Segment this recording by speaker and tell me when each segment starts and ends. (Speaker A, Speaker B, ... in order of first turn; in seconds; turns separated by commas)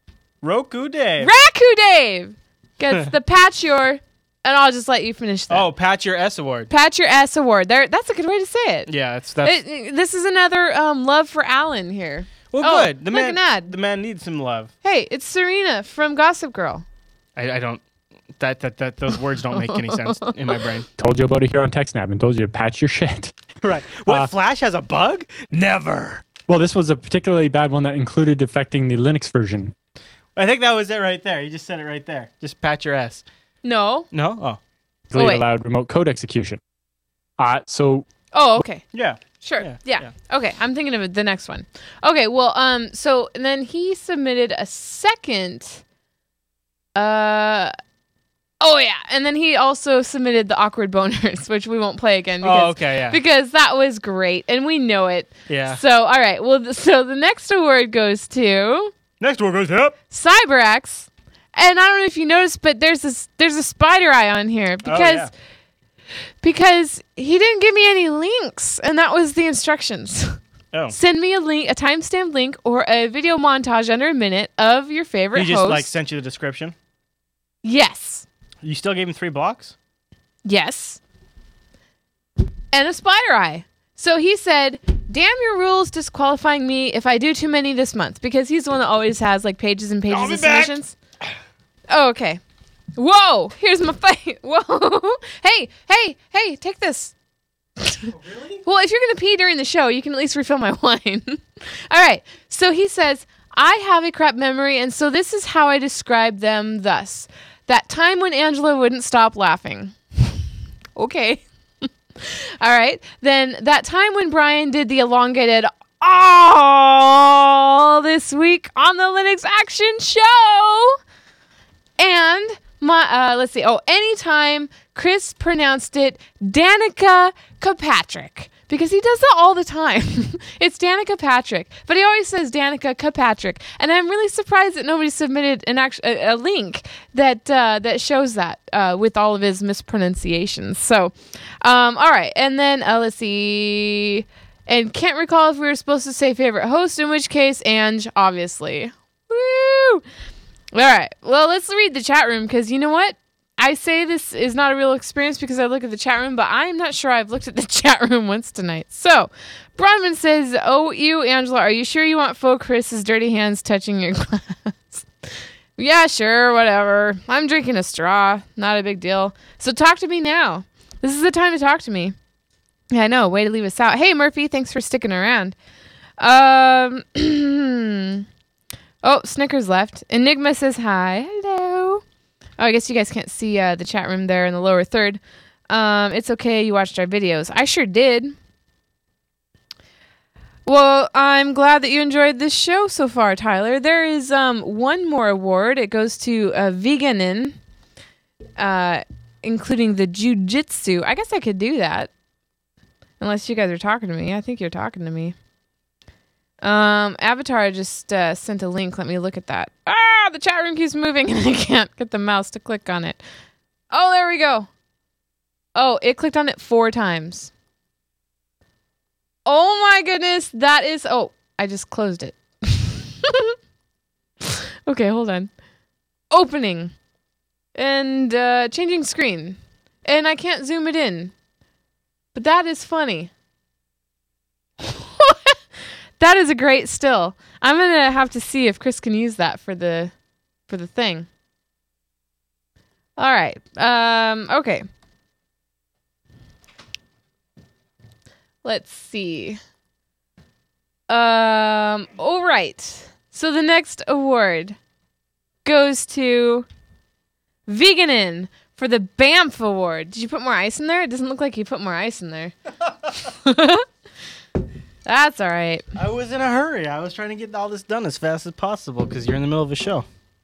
Speaker A: 0.4-1.3, Speaker B: 1.2-5.7, Speaker A: 5.5-6.7, Speaker B: 6.7-8.9, Speaker A: 8.9-9.6, Speaker B: 9.4-13.7, Speaker A: 12.5-14.7, Speaker B: 14.8-16.8, Speaker A: 17.4-17.8, Speaker A: 18.4-20.9, Speaker C: 21.0-23.3, Speaker A: 23.6-26.2, Speaker C: 26.4-29.7, Speaker A: 30.4-33.2, Speaker B: 33.6-34.1, Speaker A: 34.1-34.6, Speaker C: 35.1-36.6, Speaker B: 35.1-35.4, Speaker C: 37.4-38.1, Speaker B: 38.3-38.9, Speaker A: 38.9-40.1, Speaker B: 39.4-45.8, Speaker B: 46.9-47.7, Speaker B: 48.6-58.9, Speaker A: 52.4-53.2, Speaker A: 55.5-55.8, Speaker A: 59.2-60.0, Speaker B: 60.1-65.3, Speaker A: 64.8-65.3, Speaker B: 66.4-70.4, Speaker A: 70.7-71.0, Speaker B: 70.9-75.9, Speaker A: 75.3-76.7, Speaker B: 77.6-78.2, Speaker A: 78.6-79.7, Speaker B: 80.4-81.0, Speaker B: 82.7-90.9, Speaker A: 90.1-90.8, Speaker B: 91.9-92.4, Speaker B: 93.0-97.1, Speaker B: 97.8-98.1, Speaker A: 98.2-98.6, Speaker B: 98.6-110.3, Speaker B: 111.0-111.4, Speaker B: 112.2-121.0, Speaker B: 122.0-150.0, Speaker B: 150.7-165.1, Speaker B: 165.8-172.1, Speaker B: 172.9-175.6, Speaker B: 176.2-178.2, Speaker B: 179.0-182.0, Speaker B: 182.6-188.3, Speaker B: 190.7-197.6, Speaker B: 198.6-202.1, Speaker B: 203.2-205.3, Speaker B: 206.6-213.2, Speaker B: 213.9-214.7, Speaker B: 215.7-217.5, Speaker B: 219.4-223.5, Speaker B: 224.4-225.5, Speaker B: 226.3-226.9, Speaker B: 227.7-231.3, Speaker B: 232.3-233.3, Speaker B: 235.0-235.6, Speaker B: 236.2-240.1, Speaker B: 240.7-241.3, Speaker B: 243.2-244.8, Speaker B: 248.6-249.6, Speaker B: 251.1-254.8, Speaker B: 255.6-256.7, Speaker B: 257.7-262.5, Speaker B: 263.2-263.9, Speaker B: 265.1-265.8, Speaker A: 265.9-270.1